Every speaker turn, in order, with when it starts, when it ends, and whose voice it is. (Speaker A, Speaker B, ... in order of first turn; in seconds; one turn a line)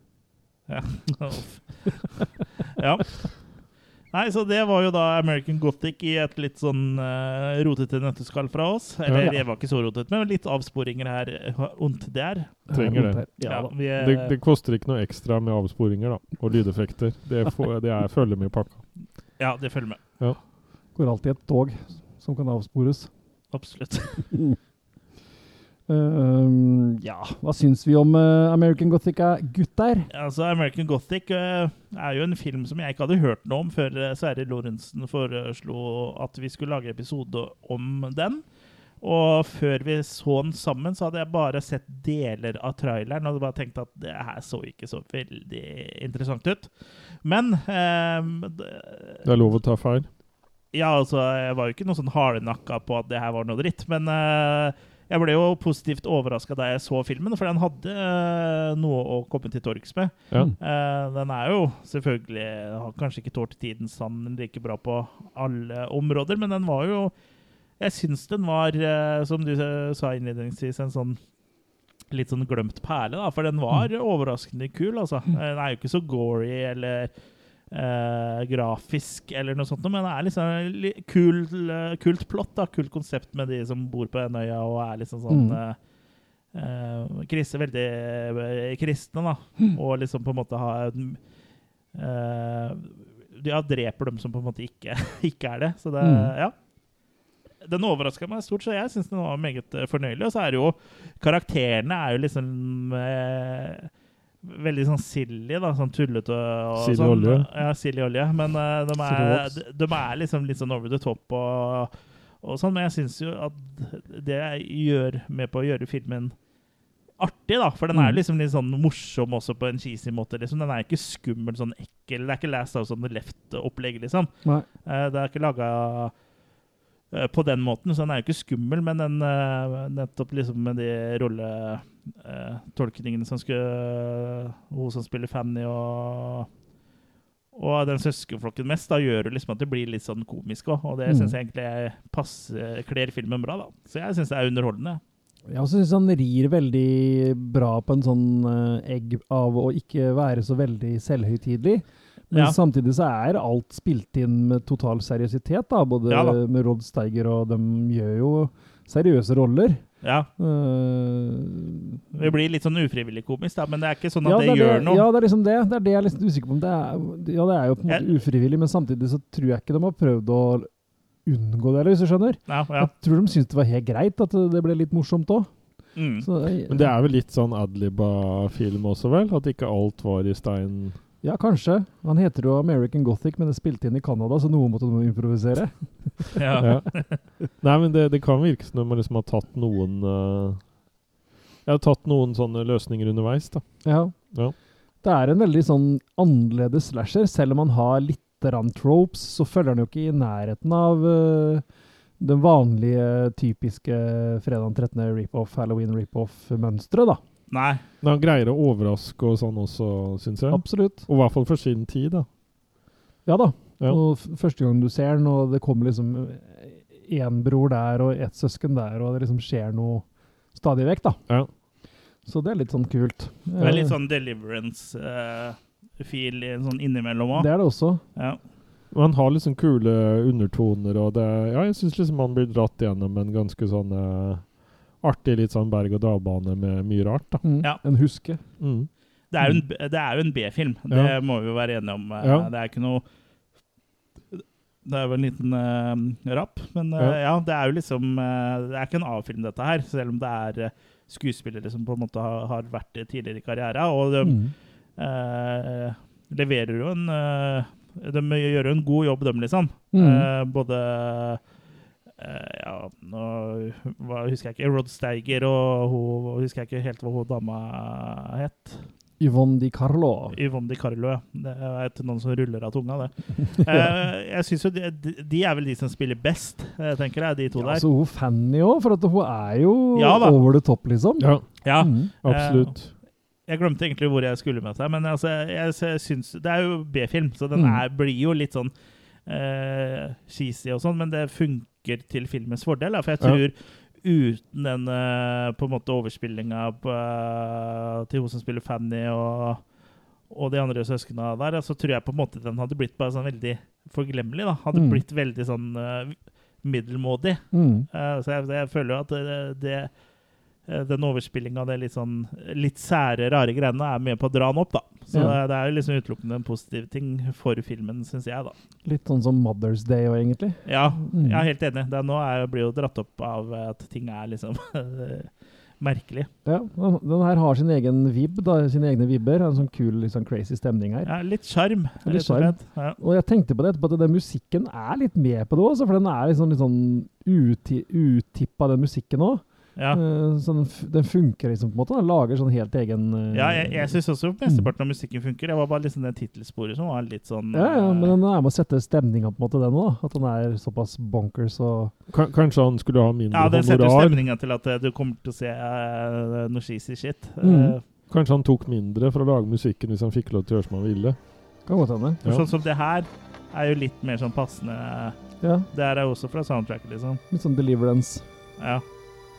Speaker A: 0.7-1.7
Speaker A: 2.8-3.3
Speaker A: 4.1-12.7
Speaker B: 12.7-13.7
Speaker C: 12.7-13.3
Speaker A: 13.4-14.3
Speaker C: 14.0-18.8
Speaker A: 19.4-20.0
Speaker B: 20.9-23.1
Speaker A: 23.5-24.3
Speaker B: 25.9-30.1
Speaker A: 30.1-38.4
Speaker A: 39.0-46.7
Speaker A: 47.2-49.2
Speaker C: 49.2-50.1
Speaker A: 50.7-67.1
Speaker A: 67.8-71.2
Speaker A: 72.1-77.1
Speaker A: 77.7-85.8
Speaker B: 85.3-85.6
Speaker A: 86.5-91.2
Speaker A: 91.9-96.5
Speaker B: 96.0-96.3
Speaker A: 97.6-103.9
Speaker A: 104.4-111.9
Speaker C: 106.8-107.5
Speaker B: 109.0-109.5
Speaker A: 112.4-116.3
Speaker A: 117.2-124.3
Speaker B: 117.9-118.2
Speaker A: 124.9-126.1
Speaker A: 127.1-136.5
Speaker A: 137.6-145.0
Speaker B: 141.1-141.3
Speaker B: 145.5-159.8
Speaker A: 156.1-156.4
Speaker A: 160.0-160.3
Speaker B: 160.4-162.3
Speaker A: 162.1-165.1
Speaker B: 164.2-170.7
Speaker B: 171.3-175.5
Speaker A: 172.5-172.9
Speaker A: 176.0-176.3
Speaker B: 176.2-176.9
Speaker C: 176.7-181.0
Speaker B: 181.2-186.4
Speaker A: 186.4-187.2
Speaker C: 186.6-186.9
Speaker C: 187.6-190.6
Speaker C: 191.7-193.6
Speaker B: 193.8-194.2
Speaker B: 195.0-201.6
Speaker B: 202.2-207.2
Speaker A: 207.5-207.8
Speaker C: 208.0-212.3
Speaker B: 210.5-211.1
Speaker B: 213.3-221.2
Speaker B: 222.3-223.9
Speaker A: 223.6-227.6
Speaker B: 227.3-228.0
Speaker C: 228.9-237.4
Speaker B: 237.4-238.4
Speaker C: 238.6-238.9
Speaker A: 239.3-243.0
Speaker C: 240.9-241.1
Speaker C: 242.2-242.5
Speaker A: 244.3-254.4
Speaker B: 254.2-254.5
Speaker A: 255.0-261.4
Speaker B: 259.9-260.3
Speaker A: 262.2-268.8
Speaker B: 269.2-270.4
Speaker A: 270.4-277.8
Speaker B: 273.6-273.9
Speaker B: 277.6-281.3
Speaker A: 280.0-280.4
Speaker C: 281.2-281.6
Speaker A: 281.6-282.7
Speaker B: 281.8-282.1
Speaker C: 282.2-282.9
Speaker A: 283.5-288.7
Speaker A: 289.3-299.6
Speaker A: 300.3-309.9
Speaker B: 304.7-305.0
Speaker B: 307.5-307.9
Speaker A: 310.7-318.6
Speaker B: 318.9-321.4
Speaker A: 320.7-326.3
Speaker B: 326.4-331.1
Speaker A: 331.1-333.0
Speaker B: 332.1-344.7
Speaker A: 343.3-348.2
Speaker B: 347.5-351.9
Speaker C: 352.1-354.2
Speaker A: 353.3-357.8
Speaker B: 357.4-357.8
Speaker C: 358.1-361.2
Speaker B: 361.7-362.2
Speaker A: 362.2-365.2
Speaker A: 365.7-367.2
Speaker B: 367.3-368.2
Speaker A: 368.6-368.8